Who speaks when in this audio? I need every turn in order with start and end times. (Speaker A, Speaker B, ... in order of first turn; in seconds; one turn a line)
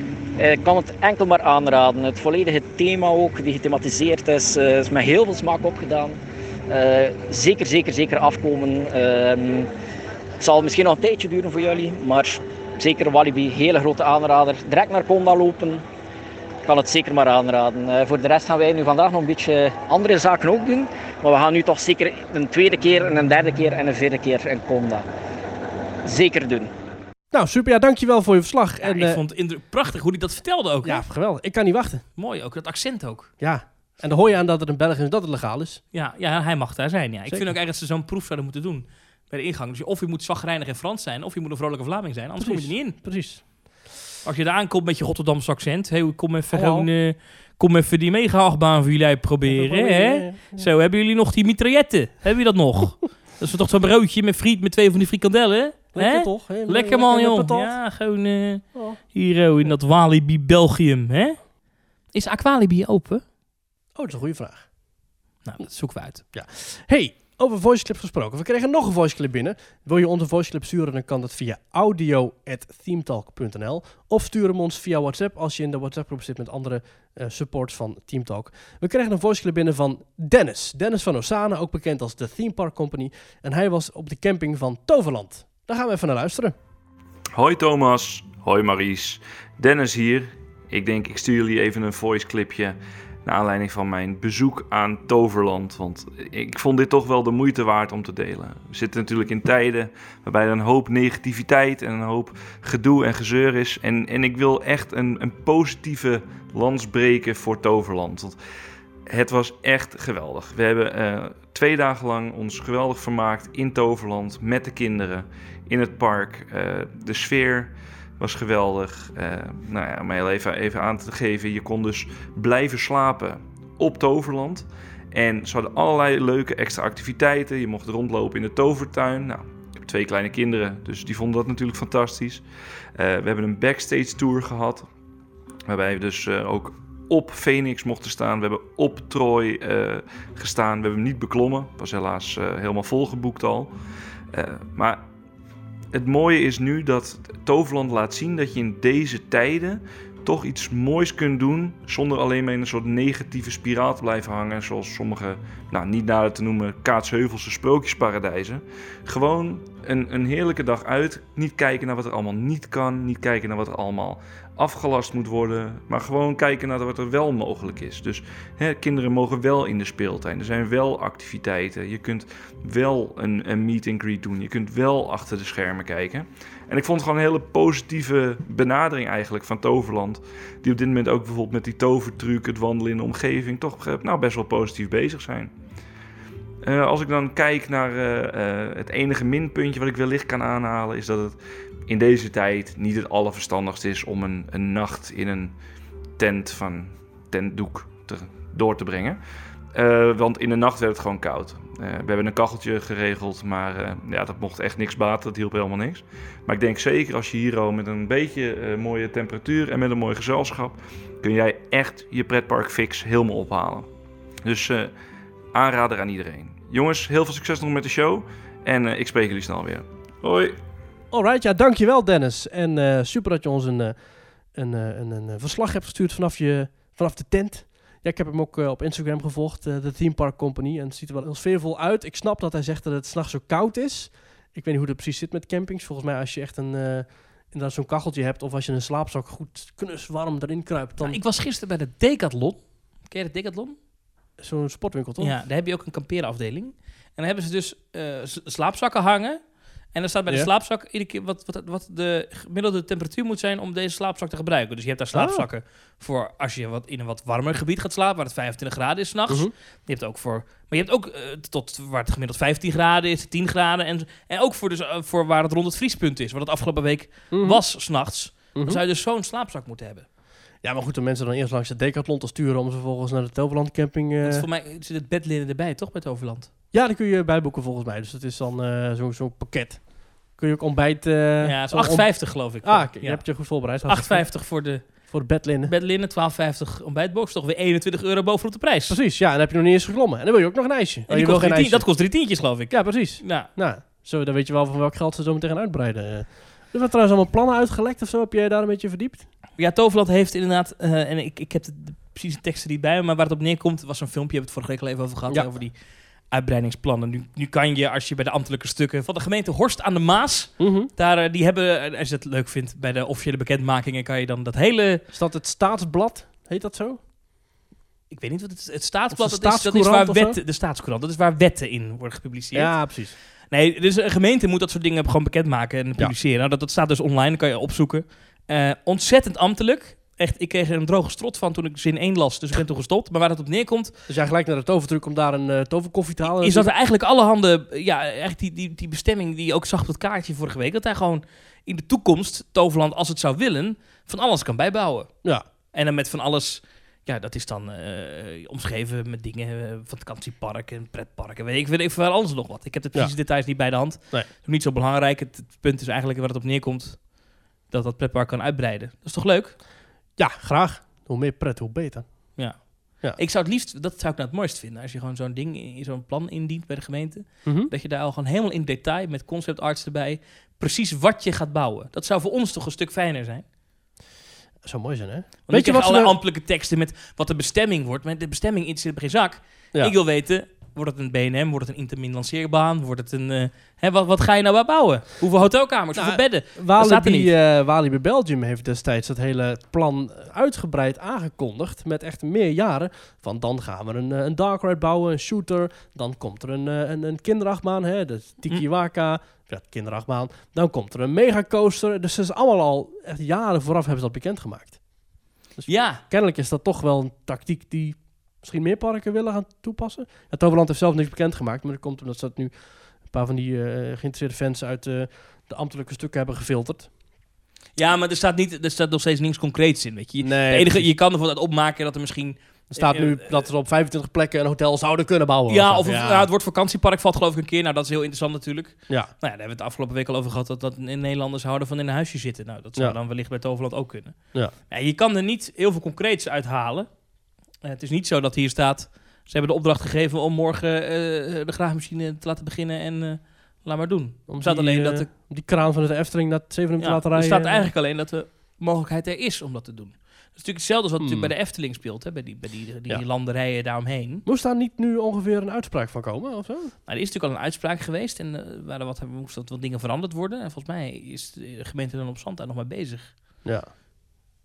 Speaker A: 0.4-9.7
Speaker A: 10.4-15.8
Speaker A: 16.6-25.0
Speaker A: 26.0-26.7
Speaker B: 27.3-29.2
Speaker C: 28.8-31.0
Speaker B: 30.8-32.0
Speaker C: 32.2-33.3
Speaker B: 33.4-35.8
Speaker C: 35.9-43.0
Speaker B: 42.4-43.4
Speaker C: 44.2-61.4
Speaker B: 46.5-46.9
Speaker B: 49.5-50.7
Speaker B: 55.9-57.7
Speaker C: 62.1-63.2
Speaker B: 64.0-64.7
Speaker C: 65.4-66.2
Speaker B: 66.3-86.5
Speaker D: 87.3-108.3
Speaker D: 109.1-132.4
Speaker D: 132.9-134.9
Speaker D: 135.7-143.7
Speaker D: 144.3-145.0
Speaker D: 145.9-185.5
Speaker D: 186.6-195.5
Speaker D: 196.2-199.2
Speaker D: 199.7-213.9
Speaker D: 214.4-214.9
Speaker D: 215.5-220.6
Speaker B: 221.1-223.9
Speaker B: 224.5-241.2
Speaker C: 241.0-243.8
Speaker B: 244.4-245.3
Speaker C: 245.2-249.4
Speaker C: 249.9-270.1
Speaker B: 255.1-255.4
Speaker B: 267.3-267.6
Speaker B: 268.5-268.8
Speaker B: 270.6-274.4
Speaker C: 274.2-276.5
Speaker B: 276.7-279.8
Speaker B: 280.4-282.1
Speaker C: 281.4-283.2
Speaker B: 282.6-284.3
Speaker C: 283.9-284.8
Speaker B: 285.1-285.7
Speaker C: 285.6-288.9
Speaker B: 288.9-291.9
Speaker C: 291.1-293.5
Speaker B: 292.7-299.3
Speaker C: 299.6-305.7
Speaker C: 306.3-315.0
Speaker B: 310.6-310.9
Speaker B: 315.1-317.0
Speaker C: 318.1-322.7
Speaker B: 319.1-320.4
Speaker B: 322.5-323.1
Speaker C: 323.5-333.9
Speaker B: 334.1-336.7
Speaker C: 336.2-345.1
Speaker C: 345.7-357.0
Speaker C: 357.7-359.5
Speaker B: 360.2-362.1
Speaker C: 363.1-373.4
Speaker B: 367.4-367.7
Speaker B: 374.6-376.1
Speaker C: 375.5-387.3
Speaker B: 385.9-404.8
Speaker B: 405.6-412.5
Speaker C: 405.6-406.0
Speaker B: 413.1-416.9
Speaker C: 417.8-423.4
Speaker B: 420.2-420.9
Speaker B: 422.7-426.3
Speaker C: 425.5-434.2
Speaker C: 434.7-436.9
Speaker C: 437.6-445.1
Speaker B: 444.3-447.7
Speaker C: 446.8-454.2
Speaker B: 451.0-451.3
Speaker B: 454.2-456.8
Speaker C: 456.9-463.1
Speaker B: 463.4-463.7